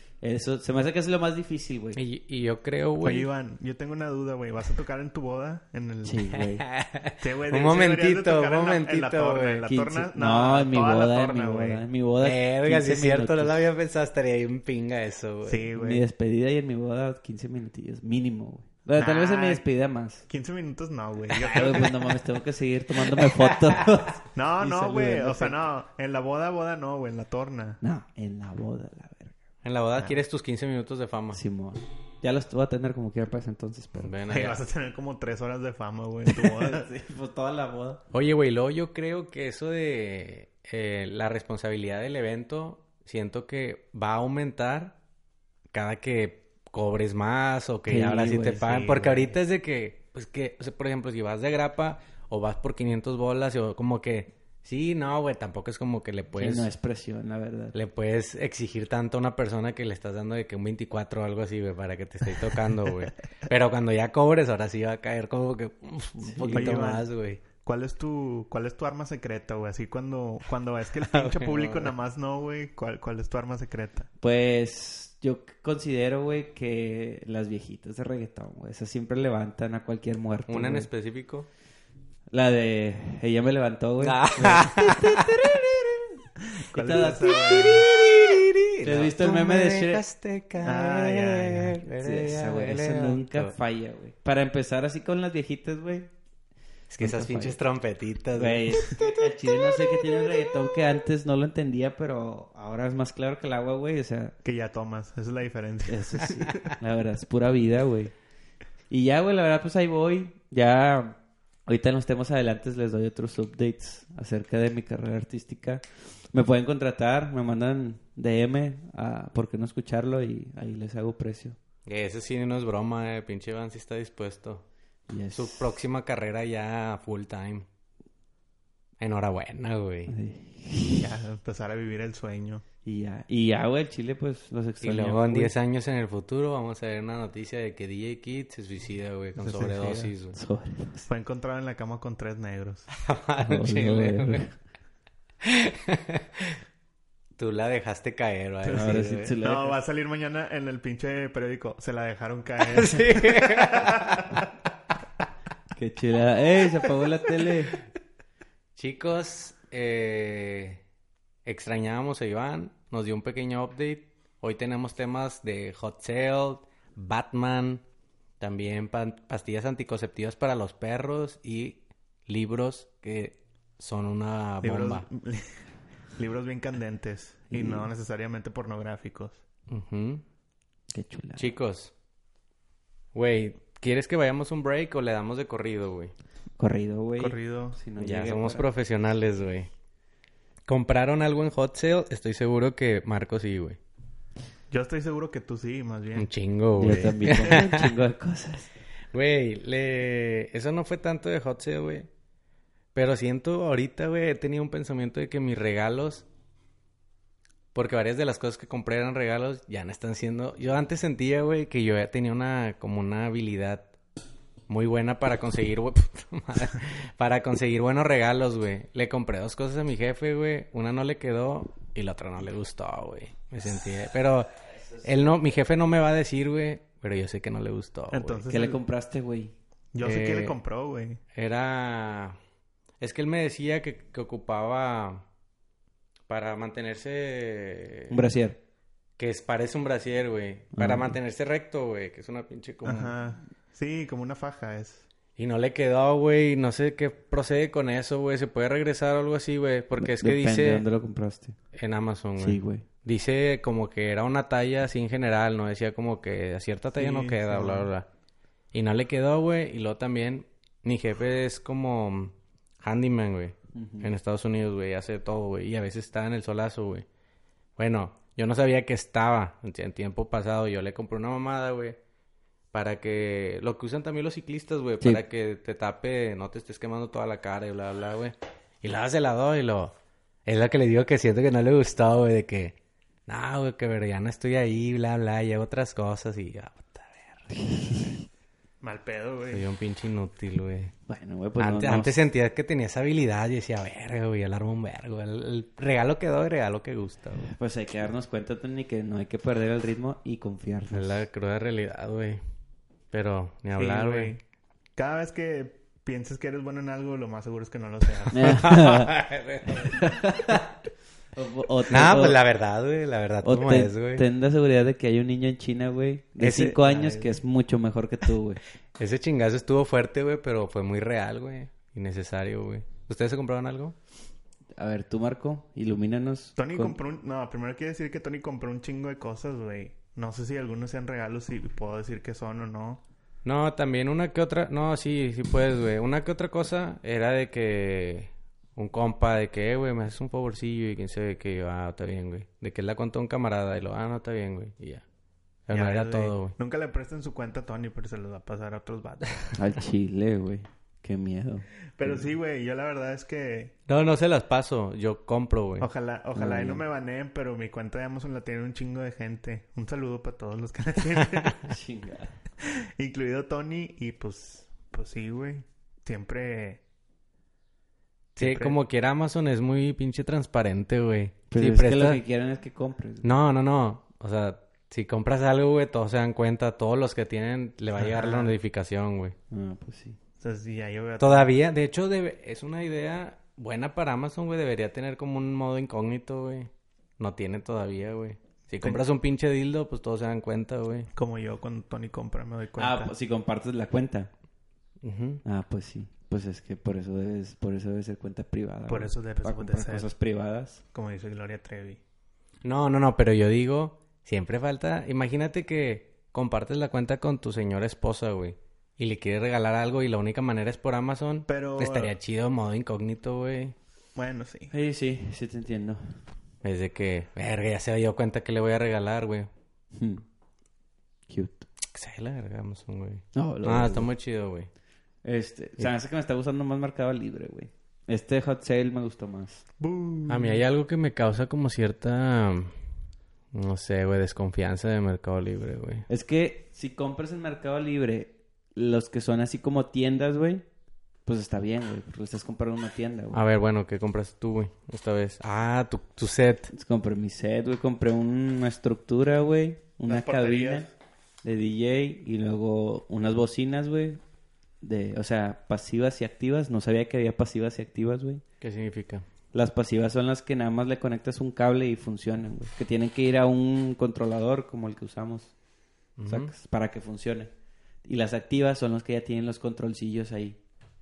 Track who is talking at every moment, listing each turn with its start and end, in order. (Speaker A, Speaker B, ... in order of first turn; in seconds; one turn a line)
Speaker A: 0.2-2.0
Speaker B: 1.9-3.3
Speaker C: 3.0-6.2
Speaker A: 6.0-6.6
Speaker B: 6.4-9.8
Speaker C: 7.2-11.8
Speaker A: 9.7-13.7
Speaker B: 12.2-15.7
Speaker C: 15.4-16.0
Speaker A: 15.7-20.2
Speaker C: 18.9-19.6
Speaker C: 20.3-21.9
Speaker A: 21.3-25.5
Speaker B: 23.4-23.8
Speaker C: 24.3-27.8
Speaker A: 27.8-29.4
Speaker B: 29.6-31.4
Speaker A: 31.3-34.1
Speaker B: 33.9-34.6
Speaker C: 34.3-36.8
Speaker A: 36.2-38.0
Speaker B: 38.1-45.0
Speaker B: 45.7-56.7
Speaker A: 47.9-49.4
Speaker A: 56.4-57.7
Speaker B: 57.7-67.4
Speaker A: 66.2-66.9
Speaker C: 66.5-74.1
Speaker B: 71.0-71.9
Speaker A: 74.2-80.9
Speaker B: 80.5-81.5
Speaker A: 82.3-86.1
Speaker B: 84.0-85.5
Speaker C: 86.6-87.9
Speaker A: 86.7-88.3
Speaker B: 87.3-93.5
Speaker A: 88.8-90.0
Speaker C: 90.6-91.8
Speaker A: 92.0-96.1
Speaker B: 96.9-100.6
Speaker A: 97.0-97.6
Speaker A: 98.3-104.3
Speaker C: 104.4-106.7
Speaker A: 105.9-108.1
Speaker A: 108.9-121.6
Speaker B: 121.8-124.6
Speaker A: 125.1-125.7
Speaker B: 125.3-127.7
Speaker B: 129.0-130.1
Speaker A: 130.1-131.1
Speaker C: 130.9-132.6
Speaker A: 132.8-135.5
Speaker B: 134.8-140.3
Speaker C: 139.4-140.1
Speaker A: 140.3-141.1
Speaker C: 141.1-142.9
Speaker B: 142.9-144.4
Speaker A: 143.4-144.5
Speaker B: 145.4-146.6
Speaker B: 147.4-149.3
Speaker C: 148.6-154.5
Speaker A: 148.7-149.8
Speaker B: 152.7-154.5
Speaker A: 155.7-157.7
Speaker B: 158.8-160.8
Speaker B: 161.4-167.8
Speaker B: 168.4-175.1
Speaker C: 174.6-175.6
Speaker C: 176.2-179.4
Speaker A: 177.5-177.8
Speaker B: 179.7-180.2
Speaker A: 180.9-181.5
Speaker B: 181.4-181.9
Speaker B: 183.1-186.1
Speaker A: 186.6-188.7
Speaker C: 187.2-187.8
Speaker B: 188.0-189.7
Speaker B: 190.7-193.8
Speaker C: 194.7-196.3
Speaker B: 196.2-197.9
Speaker A: 196.8-198.7
Speaker B: 199.1-202.1
Speaker B: 202.9-206.2
Speaker B: 207.7-213.9
Speaker B: 214.7-224.5
Speaker B: 225.0-228.4
Speaker C: 228.1-228.8
Speaker A: 228.5-229.5
Speaker C: 229.9-231.2
Speaker B: 230.0-230.6
Speaker B: 231.3-232.4
Speaker B: 233.0-235.2
Speaker B: 236.3-238.2
Speaker A: 238.1-238.6
Speaker B: 239.2-243.1
Speaker A: 240.7-241.1
Speaker C: 242.8-245.1
Speaker B: 245.4-250.8
Speaker A: 250.0-251.6
Speaker B: 251.7-258.1
Speaker A: 252.4-252.8
Speaker C: 256.9-257.9
Speaker B: 258.7-267.0
Speaker A: 263.7-264.1
Speaker B: 267.8-272.0
Speaker B: 272.7-279.9
Speaker B: 280.4-282.8
Speaker B: 283.3-287.5
Speaker A: 287.5-288.2
Speaker C: 288.8-289.6
Speaker B: 289.5-290.9
Speaker A: 291.1-292.2
Speaker B: 291.6-297.5
Speaker A: 297.4-301.2
Speaker B: 300.9-302.4
Speaker B: 303.1-304.3
Speaker C: 303.7-304.4
Speaker C: 304.9-308.5
Speaker B: 308.2-310.6
Speaker A: 308.3-310.7
Speaker A: 311.3-312.4
Speaker B: 311.9-314.2
Speaker A: 313.4-318.6
Speaker B: 316.4-316.8
Speaker C: 316.8-317.3
Speaker B: 319.0-323.9
Speaker A: 324.8-327.0
Speaker C: 326.6-333.0
Speaker B: 333.4-345.0
Speaker B: 345.7-346.5
Speaker C: 345.7-349.6
Speaker A: 349.5-352.3
Speaker C: 352.0-353.7
Speaker B: 353.9-355.9
Speaker C: 355.8-361.6
Speaker A: 356.3-356.8
Speaker A: 361.7-362.3
Speaker C: 362.6-366.8
Speaker C: 368.4-368.8
Speaker B: 368.4-372.2
Speaker A: 371.5-373.3
Speaker B: 373.2-379.4
Speaker C: 377.9-378.5
Speaker A: 379.5-380.2
Speaker C: 380.4-381.5
Speaker B: 381.2-391.1
Speaker C: 391.1-393.1
Speaker A: 392.8-394.3
Speaker B: 395.0-395.4
Speaker A: 395.4-400.8
Speaker C: 398.9-400.1
Speaker C: 400.9-402.0
Speaker B: 402.6-413.7
Speaker C: 411.5-412.1
Speaker C: 414.1-414.7
Speaker A: 414.7-416.2
Speaker B: 416.6-419.5
Speaker A: 419.9-420.2
Speaker A: 421.3-421.7
Speaker B: 421.9-424.7
Speaker A: 423.3-424.1
Speaker A: 425.2-429.6
Speaker C: 429.8-430.6
Speaker B: 430.3-432.7
Speaker B: 433.5-436.1
Speaker A: 436.1-440.6
Speaker A: 441.2-443.4
Speaker B: 443.3-446.7
Speaker A: 446.7-450.9
Speaker C: 450.1-450.9
Speaker A: 451.4-454.2
Speaker A: 454.8-458.4
Speaker B: 458.6-459.2
Speaker A: 459.5-465.5
Speaker B: 466.2-466.5
Speaker A: 466.2-467.5
Speaker A: 468.0-470.6